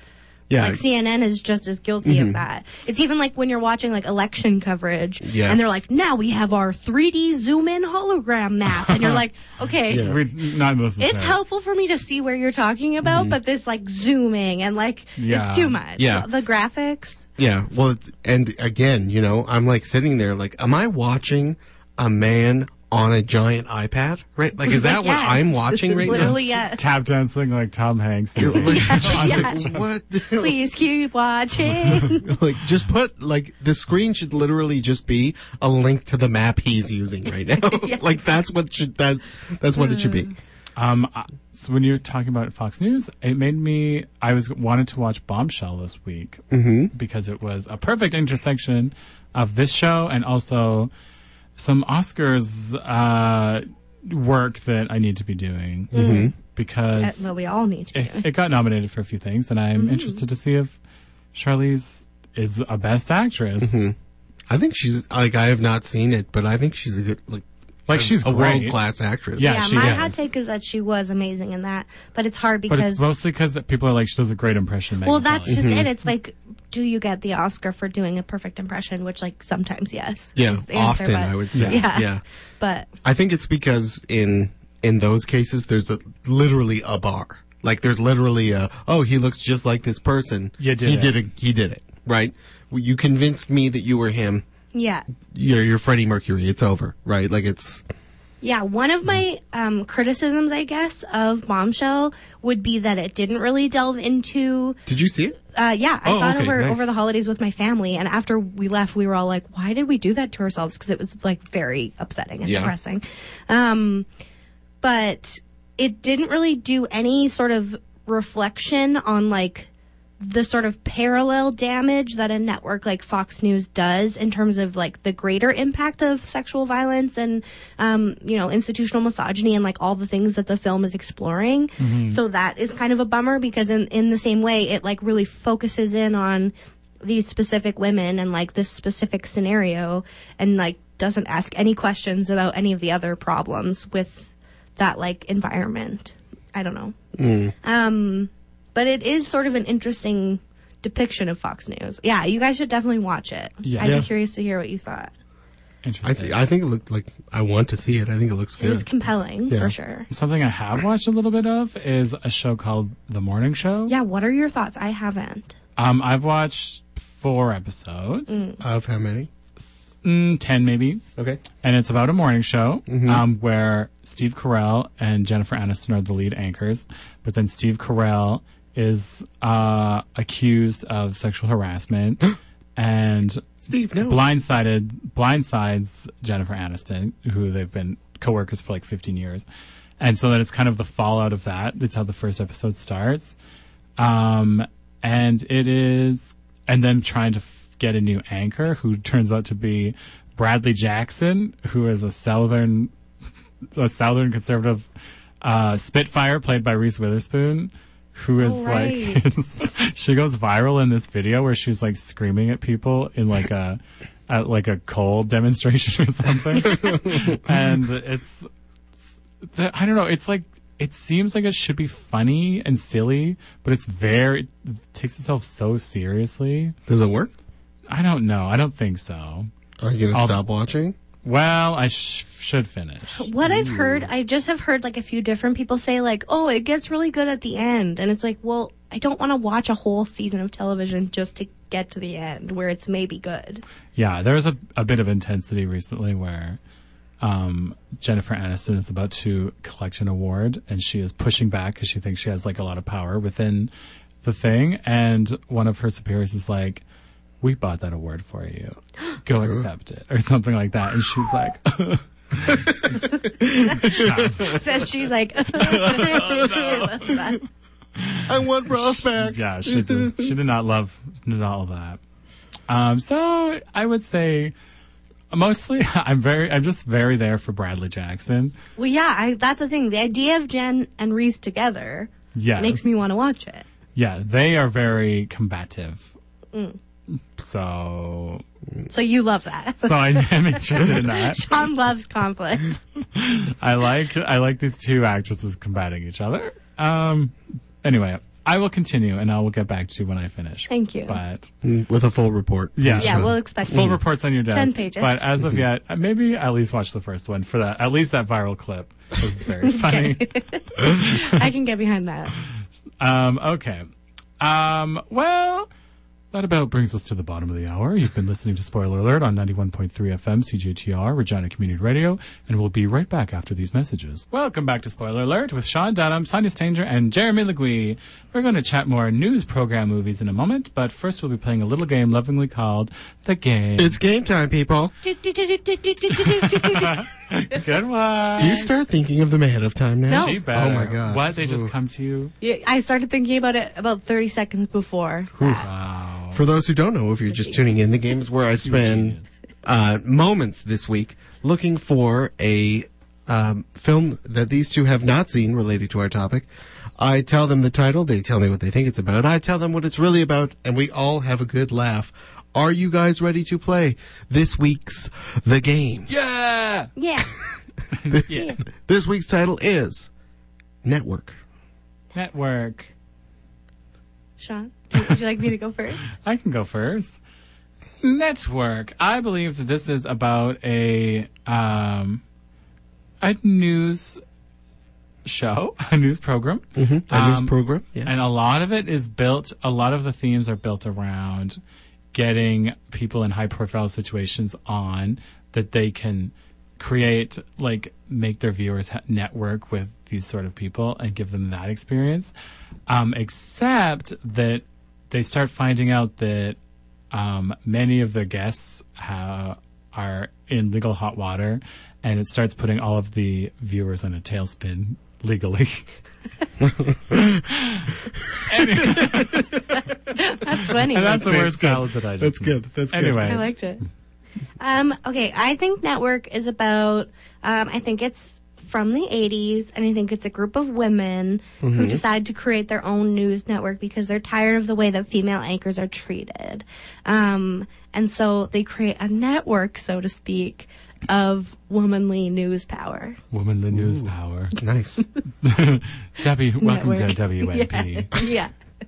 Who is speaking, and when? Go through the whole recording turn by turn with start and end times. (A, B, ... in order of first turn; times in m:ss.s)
0:00.5-0:00.8 A
0:00.6-0:10.2 B
0:02.0-0:02.4 A
0:05.2-0:05.8 A
0:08.9-0:09.2 C
0:09.9-0:10.2 A
0:09.9-0:11.4 C
0:11.0-0:17.2 B
0:13.0-0:13.4 A
0:15.2-0:15.8 C
0:16.0-0:16.3 A
0:17.4-0:26.4 A
0:24.6-0:26.8 B
0:26.0-0:29.8 C
0:28.4-0:30.6 A
0:28.5-0:29.6 B
0:30.3-0:32.3 B
0:31.8-0:40.3 A
0:37.6-0:38.0 B
0:39.8-0:40.3 B
0:40.8-0:50.9 C
0:46.5-0:46.9 A
0:51.6-0:57.3 C
0:55.9-0:56.3 A
0:55.9-0:56.3 B
0:57.0-0:58.2 B
0:57.9-1:00.8 C
0:59.8-1:00.2 B
1:01.3-1:03.8 C
1:03.6-1:03.9 A
1:04.5-1:10.2 A
1:07.9-1:08.8 C
1:09.4-1:10.1 C
1:09.4-1:13.1 B
1:12.7-1:15.8 C
1:15.0-1:22.9 B
1:15.5-1:15.9 A
1:20.4-1:22.2 A
1:21.5-1:21.8 C
1:23.0-1:34.4 A
1:30.6-1:31.2 C
1:34.7-1:35.0 B
1:35.3-1:37.8 A
1:38.4-1:44.8 B
1:44.8-1:45.4 A
1:45.5-1:54.1 B
1:46.0-1:46.9 A
1:52.4-1:52.7 A
1:54.8-1:59.7 B
2:00.2-2:27.0 B
2:11.8-2:12.2 C
2:27.2-2:27.5 A
2:27.6-2:35.1 B
2:33.6-2:34.0 C
2:33.8-2:34.1 A
2:35.8-2:36.4 C
2:36.0-2:38.8 A
2:38.6-2:40.1 B
2:39.5-2:39.7 A
2:40.1-2:43.9 C
2:43.9-2:45.5 B
2:45.8-2:48.5 C
2:48.3-2:48.6 B
2:48.6-2:49.3 A
2:49.6-2:51.0 C
2:51.2-2:51.4 A
2:51.6-3:09.4 C
2:52.9-2:53.2 A
3:03.6-3:04.2 A
3:10.0-3:13.4 C
3:14.0-3:22.9 C
3:23.7-3:24.9 C
3:25.4-3:38.5 C
3:28.4-3:29.2 B
3:36.7-3:37.4 A
3:39.0-3:46.7 C
3:46.9-3:47.3 A
3:47.9-3:49.5 C
3:49.8-3:50.9 A
3:50.1-3:50.4 C
3:51.2-3:54.0 C
3:53.1-4:03.6 B
4:04.0-4:06.6 C
4:07.2-4:13.7 C
4:14.2-4:16.8 C
4:17.4-4:23.0 C
4:22.5-4:24.6 A
4:22.9-4:27.4 B
4:23.8-4:24.6 C
4:25.5-4:27.2 C
4:25.9-4:26.4 A
4:28.0-4:32.0 C
4:28.2-4:30.3 A
4:32.7-4:34.5 C
4:35.3-4:38.5 C
4:38.8-4:43.6 B
4:42.3-4:43.0 C
4:43.9-4:46.1 C
4:47.4-4:48.4 C
4:48.9-4:52.8 B
4:49.8-4:51.6 C
4:53.1-5:01.5 C
5:00.7-5:01.2 B
5:01.6-5:04.0 A
5:02.8-5:11.4 C
5:03.0-5:04.0 B
5:04.5-5:05.2 B
5:09.6-5:12.3 B
5:13.0-5:13.8 C
5:14.4-5:15.7 C
5:16.3-5:34.0 C
5:33.8-5:34.9 A
5:35.0-5:37.0 B
5:36.4-5:38.7 C
5:38.4-5:41.7 A
5:40.1-5:40.4 B
5:40.1-5:42.3 C
5:42.4-5:45.7 B
5:45.4-5:45.7 A
5:45.6-5:46.4 C
5:46.3-5:56.5 A
5:48.6-5:49.2 C
5:57.0-6:06.1 A
6:06.1-6:06.9 C
6:07.0-6:07.3 B
6:07.9-6:08.6 C
6:08.1-6:10.1 A
6:08.3-6:08.6 B
6:10.8-6:11.4 A
6:12.1-6:12.9 C
6:14.4-6:16.0 B
6:16.1-6:17.2 C
6:18.0-6:22.2 C
6:23.2-6:24.2 C
6:25.2-6:27.5 C
6:26.8-6:28.1 A
6:28.0-6:31.6 C
6:32.1-6:42.3 C
6:42.9-6:46.6 C
6:47.1-6:55.9 C
6:56.8-6:57.4 A
6:57.4-6:59.5 C
6:58.6-6:59.8 A
6:59.7-7:01.4 B
7:00.8-7:03.5 C
7:01.0-7:03.4 A
7:03.2-7:03.8 B
7:04.6-7:23.2 B
7:11.6-7:12.0 A
7:23.3-7:24.6 C
7:23.7-7:25.0 A
7:25.4-7:28.3 C
7:26.6-7:28.5 B